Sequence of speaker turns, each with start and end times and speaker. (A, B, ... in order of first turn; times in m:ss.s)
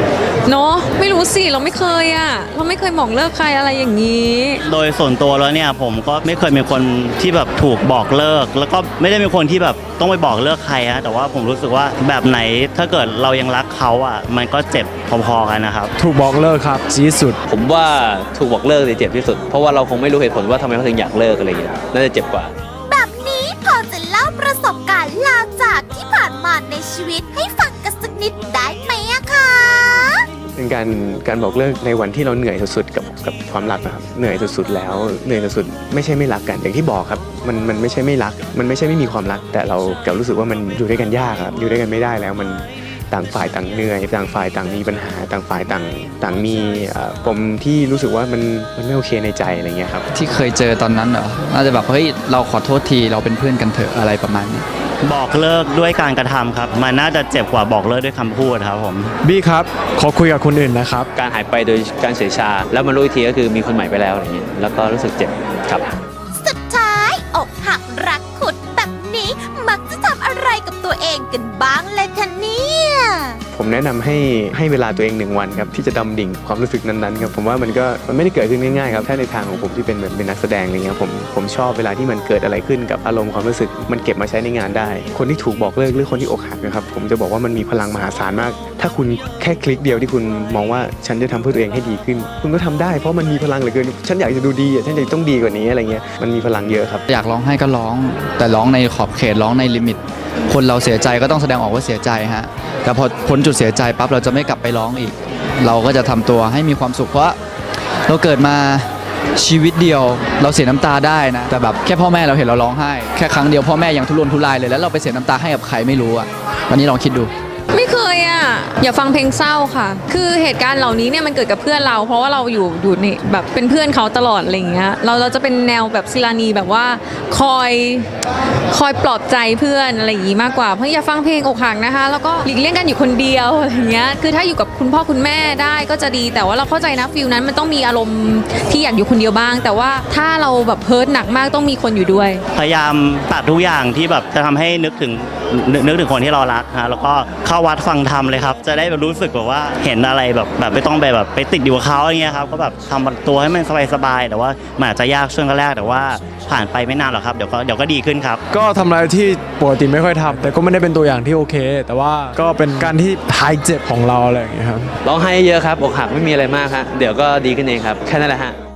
0:00.4-0:04.6 A
0:04.6-0:15.9 B
0:16.0-0:17.4 C
0:17.5-0:22.5 D
0:22.8-0:30.3 E
0:30.6-0:50.0 F
0:50.1-0:54.6 G
0:55.0-0:59.1 B
0:59.2-1:01.1 C
1:01.2-1:05.9 D
1:06.3-1:13.4 E
1:13.5-1:37.0 F
1:37.1-1:47.4 G
1:48.1-1:57.3 G
1:57.7-2:08.1 A
2:08.7-2:22.4 A
2:22.5-2:38.4 B
2:38.5-2:44.9 C
2:45.0-2:48.6 D